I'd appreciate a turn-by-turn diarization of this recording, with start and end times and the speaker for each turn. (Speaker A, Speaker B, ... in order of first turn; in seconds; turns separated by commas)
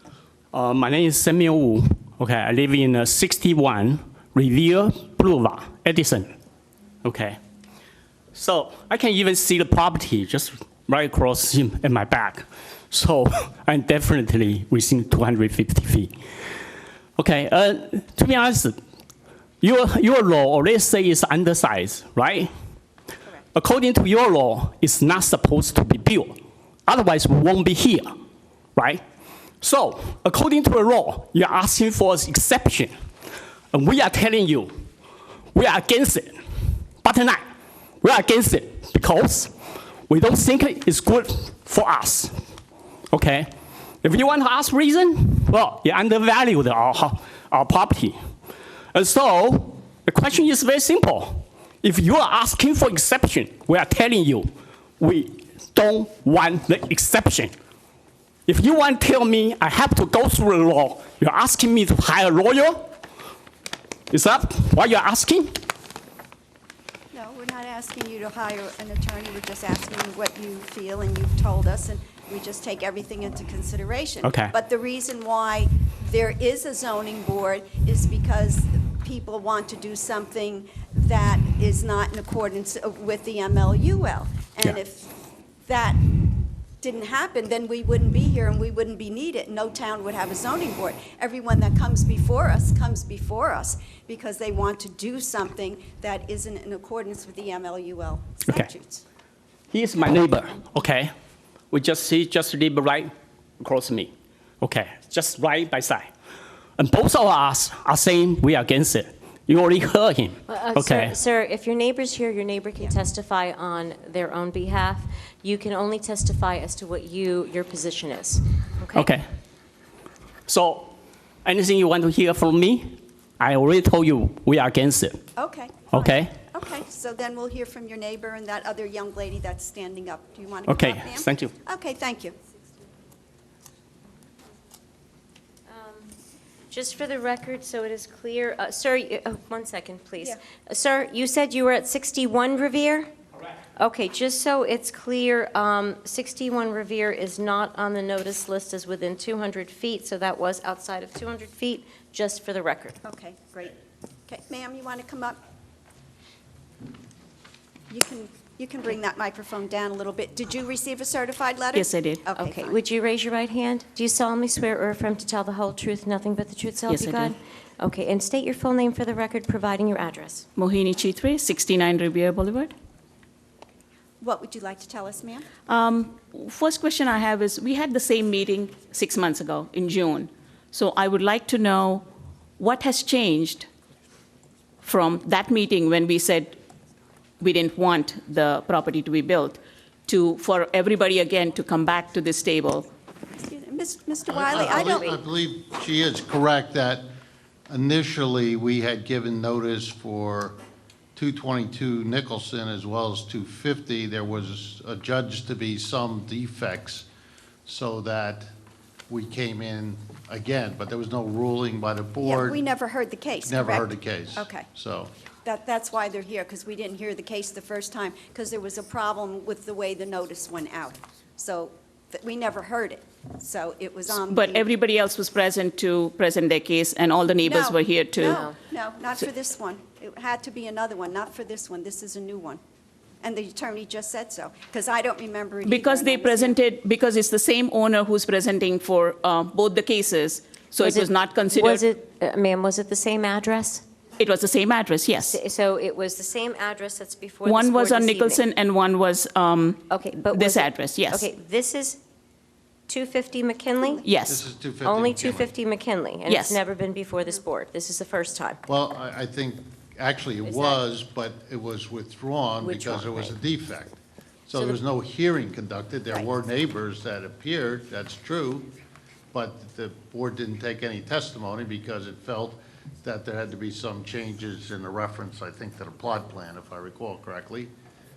Speaker A: 0.5-6.3, Speaker A: 7.0-7.4, Speaker A: 8.3-16.1, Speaker A: 17.2-18.8, Speaker A: 19.6-22.5, Speaker A: 23.6-28.1, Speaker A: 28.8-29.0, Speaker A: 29.6-32.9, Speaker A: 33.7-34.8, Speaker A: 35.5-36.4, Speaker A: 37.0-37.4, Speaker A: 38.0-39.5, Speaker A: 40.1-42.4, Speaker A: 43.1-43.5, Speaker A: 44.0-48.2, Speaker A: 48.9-57.5, Speaker A: 58.5-62.9, Speaker A: 64.1-65.7, Speaker B: 67.1-85.1, Speaker A: 74.2-74.5, Speaker B: 85.7-86.0, Speaker B: 86.8-99.0, Speaker A: 99.7-101.1, Speaker A: 101.7-106.1, Speaker A: 106.8-111.2, Speaker C: 110.5-119.1, Speaker A: 119.0-119.3, Speaker A: 120.5-125.2, Speaker B: 125.4-132.3, Speaker A: 125.9-126.4, Speaker A: 130.7-131.5, Speaker C: 135.7-136.1, Speaker C: 136.7-143.1, Speaker C: 143.8-153.0, Speaker B: 153.0-153.8, Speaker B: 154.3-155.4, Speaker B: 157.9-162.8, Speaker D: 161.7-162.2, Speaker C: 162.4-170.5, Speaker D: 166.9-167.3, Speaker D: 170.6-172.7, Speaker B: 174.2-175.5, Speaker D: 175.7-182.1, Speaker D: 182.6-183.7, Speaker D: 184.8-186.6, Speaker D: 187.4-192.9, Speaker B: 193.3-195.2, Speaker E: 194.4-197.1, Speaker E: 197.7-200.6, Speaker E: 201.2-207.1, Speaker E: 207.7-208.5, Speaker E: 209.1-212.6, Speaker B: 212.2-214.7, Speaker E: 213.5-215.1, Speaker B: 215.4-224.7, Speaker D: 224.1-228.4, Speaker B: 227.4-232.6, Speaker C: 228.2-228.6, Speaker B: 233.2-236.6, Speaker D: 235.7-241.8, Speaker C: 240.8-243.8, Speaker D: 244.2-245.4, Speaker C: 245.3-248.4, Speaker D: 247.4-251.3, Speaker C: 249.9-252.0, Speaker C: 252.9-254.0, Speaker B: 253.8-254.1, Speaker D: 254.0-254.4, Speaker E: 254.3-255.6, Speaker C: 254.8-258.6, Speaker D: 256.3-256.6, Speaker E: 258.7-268.7, Speaker C: 260.4-260.8, Speaker C: 262.6-263.4, Speaker E: 269.3-277.7